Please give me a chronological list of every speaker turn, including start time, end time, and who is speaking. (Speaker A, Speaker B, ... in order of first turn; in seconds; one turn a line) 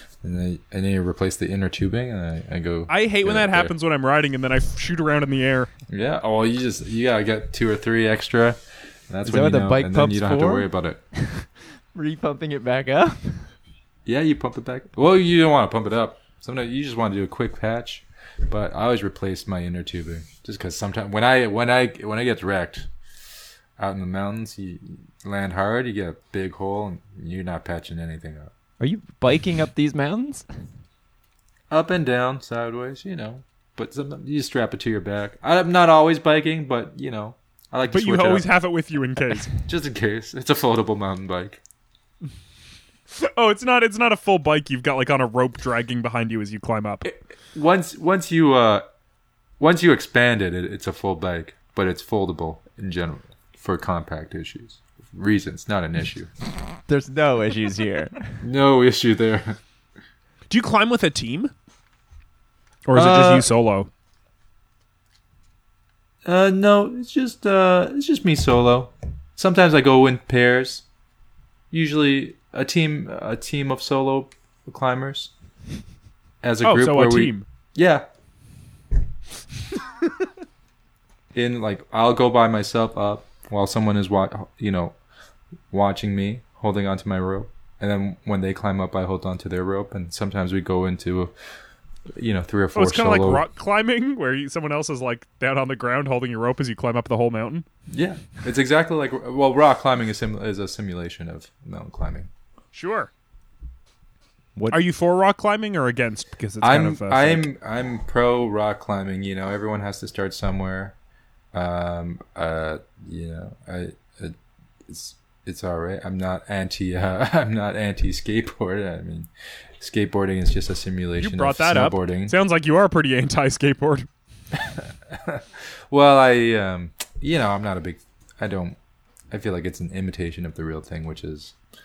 Speaker A: 0.2-3.7
Speaker B: 2.9-5.7
Speaker A: 5.9-11.0
Speaker C: 9.2-13.5
Speaker A: 14.0-22.9
Speaker A: 23.8-28.5
Speaker C: 28.8-30.5
Speaker A: 31.7-38.5
Speaker B: 37.9-39.5
Speaker A: 39.5-41.6
Speaker B: 43.1-47.1
Speaker A: 47.0-48.8
Speaker A: 49.6-56.3
Speaker C: 56.9-58.4
Speaker A: 58.4-59.6
Speaker B: 60.5-61.5
Speaker B: 62.9-63.9
Speaker A: 62.9-63.5
Speaker A: 66.2-70.8
Speaker A: 71.7-75.3
Speaker A: 76.4-78.0
Speaker B: 76.6-77.5
Speaker A: 81.3-85.0
Speaker A: 85.7-91.3
Speaker A: 92.1-93.4
Speaker B: 92.7-97.6
Speaker A: 97.9-102.3
Speaker B: 102.7-103.1
Speaker C: 104.5-104.8
Speaker B: 104.7-107.5
Speaker A: 106.6-110.9
Speaker A: 111.5-114.3
Speaker A: 114.9-122.3
Speaker B: 121.2-124.1
Speaker A: 124.7-128.8
Speaker A: 129.3-131.6